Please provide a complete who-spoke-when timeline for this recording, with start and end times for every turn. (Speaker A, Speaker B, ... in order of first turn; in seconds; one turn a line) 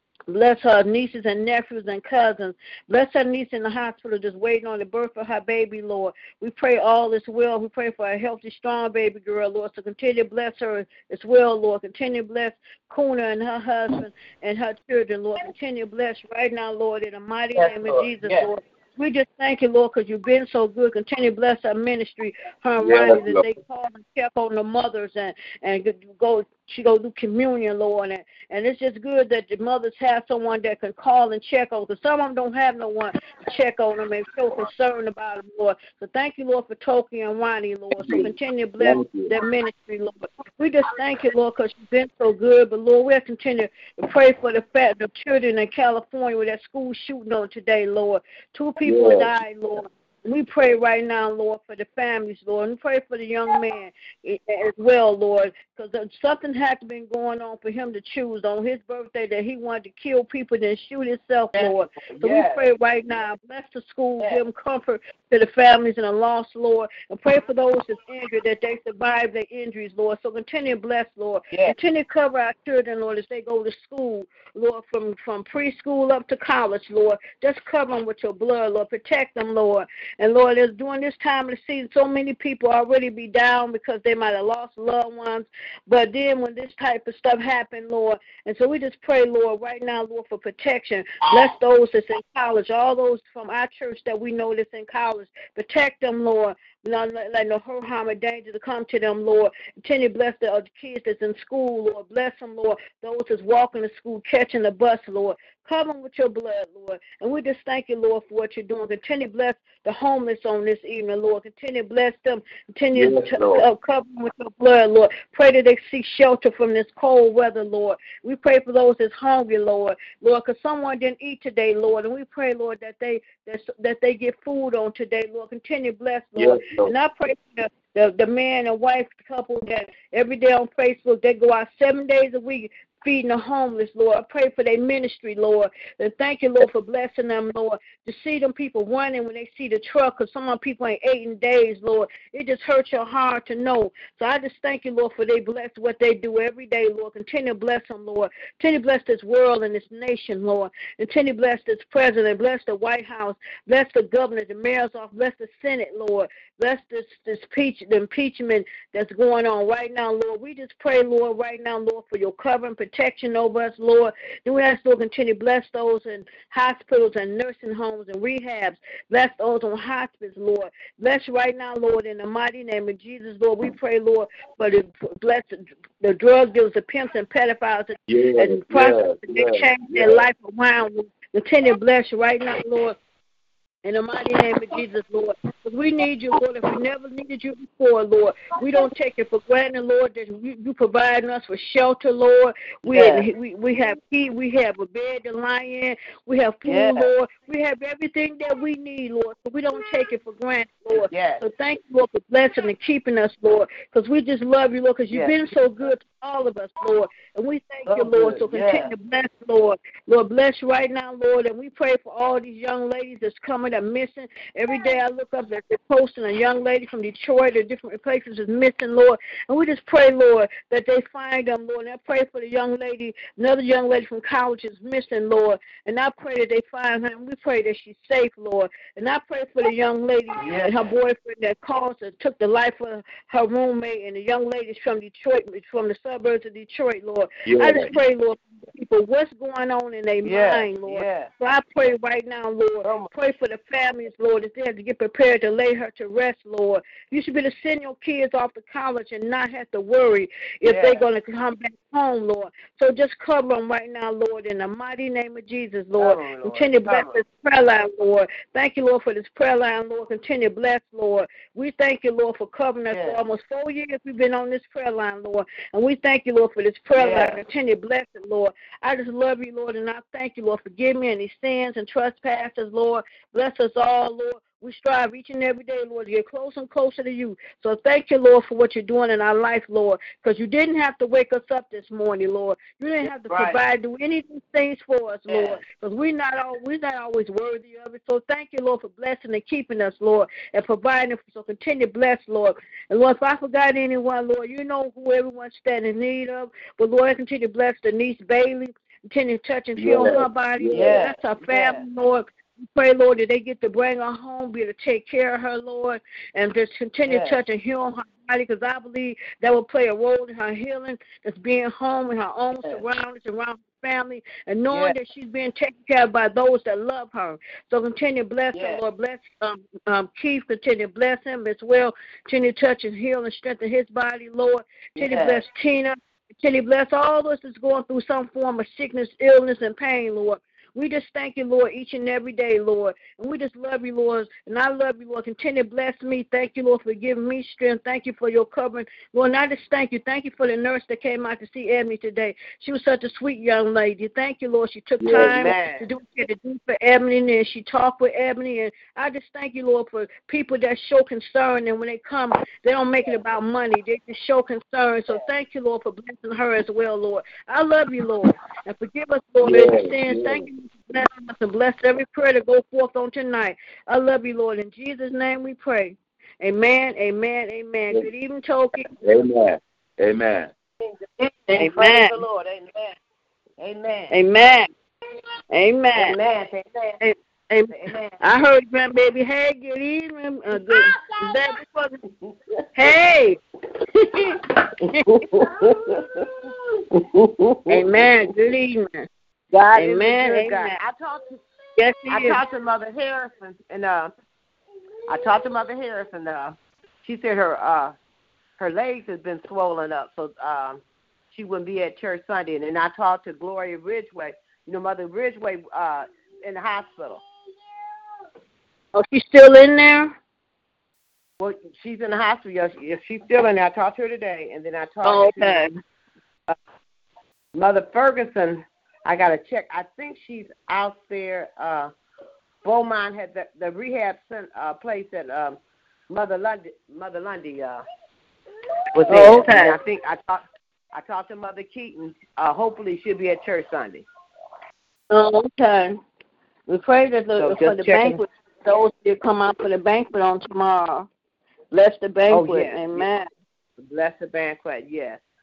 Speaker A: 0.3-183.0
Speaker B: 17.6-18.5
Speaker C: 22.8-23.4
Speaker C: 38.0-38.3
Speaker C: 38.8-39.3
Speaker C: 48.8-49.3
Speaker B: 61.5-62.7
Speaker C: 112.9-113.7
Speaker C: 126.3-126.9
Speaker C: 178.1-180.2
Speaker A: 183.8-368.9
Speaker B: 192.8-193.3
Speaker B: 196.7-197.1
Speaker B: 200.9-201.4
Speaker B: 207.9-208.9
Speaker B: 230.4-230.7
Speaker C: 237.4-237.9
Speaker B: 240.2-241.3
Speaker B: 242.8-243.1
Speaker B: 250.6-251.0
Speaker B: 256.0-257.2
Speaker B: 262.9-263.2
Speaker B: 266.9-267.4
Speaker B: 283.3-283.6
Speaker B: 285.3-285.6
Speaker C: 299.8-301.0
Speaker B: 300.7-301.9
Speaker B: 307.1-307.4
Speaker B: 318.5-318.8
Speaker B: 325.0-325.4
Speaker C: 345.0-345.4
Speaker B: 345.1-345.9
Speaker C: 359.4-360.5
Speaker C: 369.0-370.5
Speaker B: 370.8-373.0
Speaker A: 371.5-372.2
Speaker B: 373.6-374.1
Speaker A: 374.1-374.7
Speaker A: 375.5-376.1
Speaker B: 375.9-377.0
Speaker A: 377.0-382.0
Speaker B: 377.7-378.2
Speaker B: 380.6-381.4
Speaker A: 382.7-383.4
Speaker B: 384.6-387.9
Speaker A: 387.7-389.1
Speaker B: 389.5-391.4
Speaker A: 389.8-390.8
Speaker A: 391.8-392.4
Speaker B: 392.1-394.1
Speaker B: 395.1-397.9
Speaker B: 398.6-400.8
Speaker B: 401.3-407.2
Speaker A: 408.9-410.1
Speaker B: 411.4-415.6
Speaker A: 415.0-415.7
Speaker B: 417.5-421.9
Speaker B: 422.6-425.6
Speaker B: 426.1-427.8
Speaker B: 428.9-434.1
Speaker A: 429.1-429.8
Speaker A: 435.1-436.0
Speaker A: 436.7-441.1
Speaker B: 437.4-438.2
Speaker A: 441.7-443.3
Speaker B: 442.3-443.1
Speaker B: 443.8-445.2